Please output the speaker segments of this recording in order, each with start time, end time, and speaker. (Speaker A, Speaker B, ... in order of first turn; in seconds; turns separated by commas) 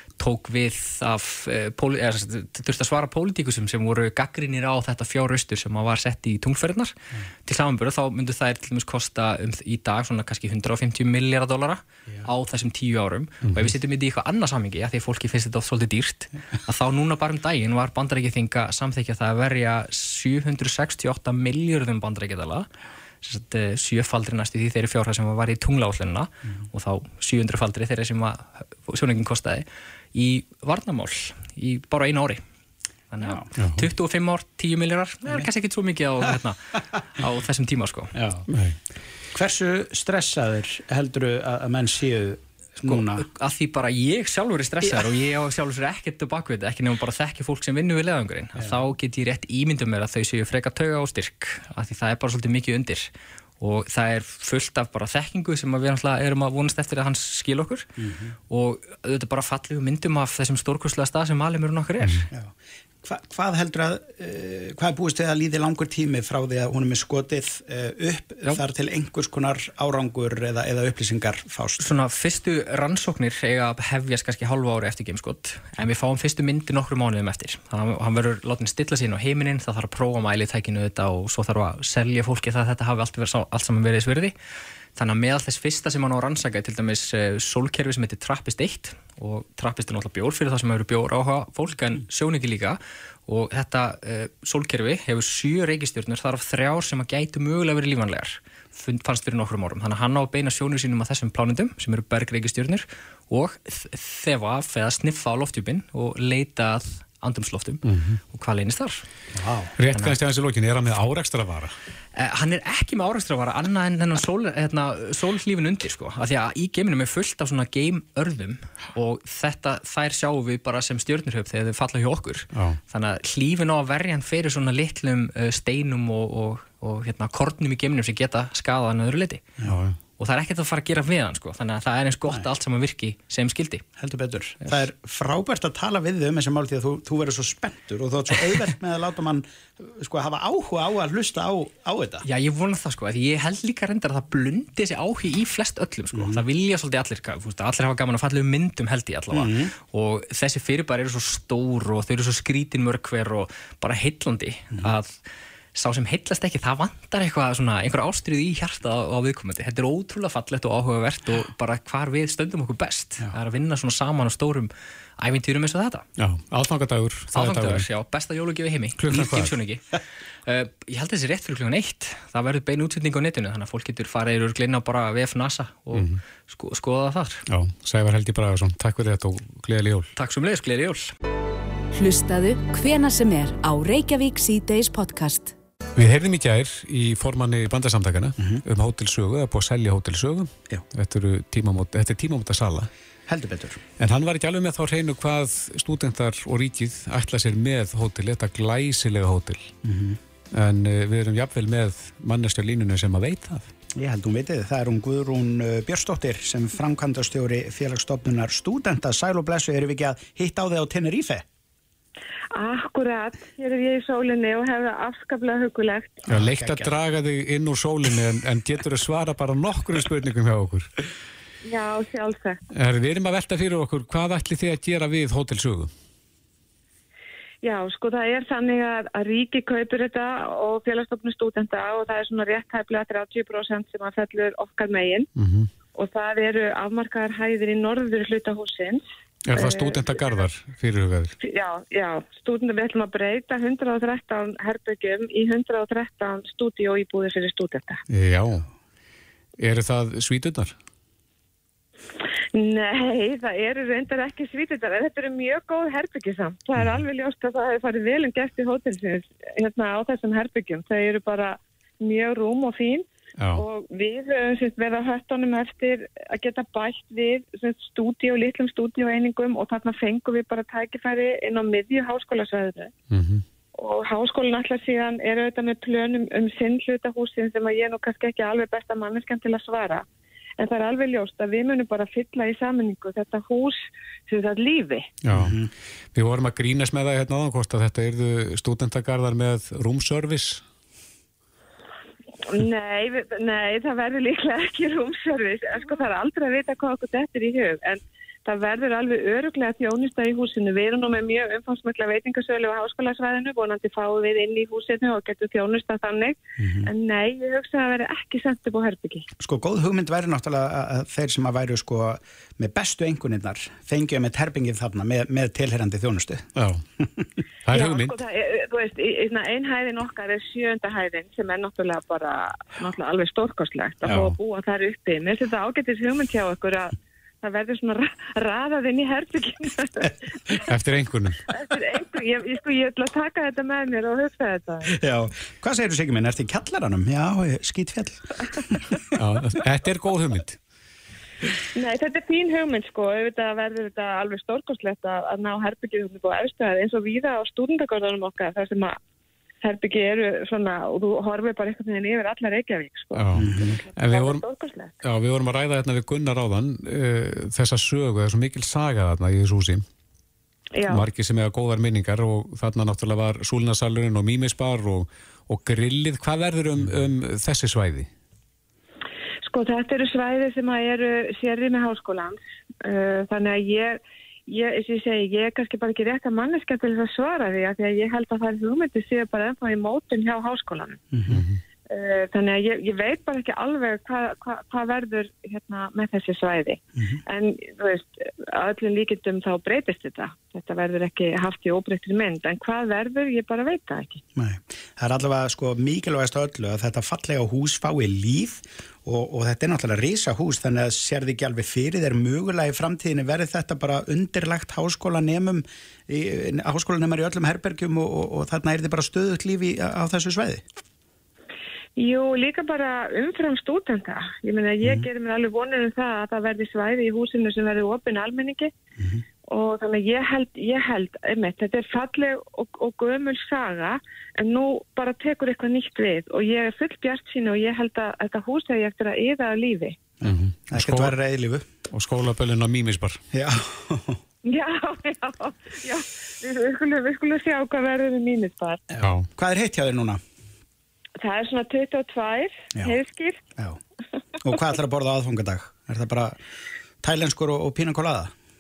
Speaker A: 0.2-22.7, Speaker B: 13.4-13.7, Speaker A: 23.2-32.4, Speaker A: 33.1-38.1, Speaker C: 33.2-33.5, Speaker B: 33.6-33.8, Speaker C: 38.1-38.5, Speaker B: 38.5-38.8, Speaker C: 39.3-43.3, Speaker A: 42.8-53.1, Speaker A: 53.6-57.9, Speaker C: 58.0-58.3, Speaker A: 58.5-62.3, Speaker C: 63.0-71.9, Speaker A: 71.8-84.3, Speaker A: 85.0-109.0, Speaker B: 107.8-108.2, Speaker C: 109.3-109.7, Speaker B: 109.8-111.7, Speaker A: 109.9-110.2, Speaker A: 112.2-129.4, Speaker B: 122.5-122.8, Speaker B: 129.6-130.0, Speaker A: 130.2-133.8, Speaker C: 134.0-142.2, Speaker A: 142.2-155.2, Speaker C: 146.1-146.4, Speaker C: 149.3-149.7, Speaker A: 155.7-166.1, Speaker B: 166.2-167.9, Speaker A: 167.3-177.4, Speaker B: 169.0-169.5, Speaker B: 175.9-176.2, Speaker B: 177.5-180.1, Speaker A: 180.2-181.1, Speaker D: 181.9-185.5, Speaker B: 185.9-192.9, Speaker C: 193.3-193.8, Speaker B: 194.0-199.7, Speaker C: 199.8-200.2, Speaker B: 200.5-203.7, Speaker C: 203.9-211.4, Speaker E: 212.5-216.2, Speaker B: 216.3-220.9, Speaker C: 216.3-216.9, Speaker E: 221.6-222.6, Speaker B: 222.7-225.9, Speaker E: 227.6-235.3, Speaker B: 235.4-235.7, Speaker E: 235.9-240.1, Speaker B: 239.5-241.3, Speaker E: 241.4-248.0, Speaker B: 248.1-248.7, Speaker B: 249.6-250.8, Speaker E: 252.5-272.9, Speaker B: 263.4-263.6, Speaker B: 273.1-273.4, Speaker E: 273.7-280.1, Speaker E: 280.6-285.1, Speaker B: 285.2-285.6, Speaker C: 285.3-285.7, Speaker B: 286.1-290.6, Speaker E: 292.4-309.3, Speaker C: 306.6-306.9, Speaker C: 309.4-316.5, Speaker B: 316.6-316.8, Speaker C: 317.0-317.3, Speaker B: 317.6-318.2, Speaker E: 317.7-330.1, Speaker B: 324.1-324.4, Speaker B: 330.7-331.4, Speaker E: 331.5-334.9, Speaker C: 334.9-338.8, Speaker B: 339.1-340.6, Speaker E: 341.7-348.9, Speaker E: 349.6-354.9, Speaker B: 353.2-354.4, Speaker C: 353.3-353.8, Speaker B: 355.0-359.9, Speaker E: 360.7-361.1, Speaker B: 360.9-368.1, Speaker E: 369.4-381.0, Speaker C: 381.1-381.4, Speaker B: 381.3-381.6, Speaker E: 381.9-394.2, Speaker C: 394.4-410.6, Speaker E: 412.0-418.7, Speaker E: 419.4-430.0, Speaker C: 430.2-431.7, Speaker B: 430.2-431.2, Speaker B: 431.9-433.2, Speaker C: 433.3-434.2, Speaker E: 434.4-438.8, Speaker C: 438.9-440.2, Speaker B: 439.0-439.3, Speaker E: 441.2-443.4, Speaker C: 444.4-446.4, Speaker C: 447.0-448.3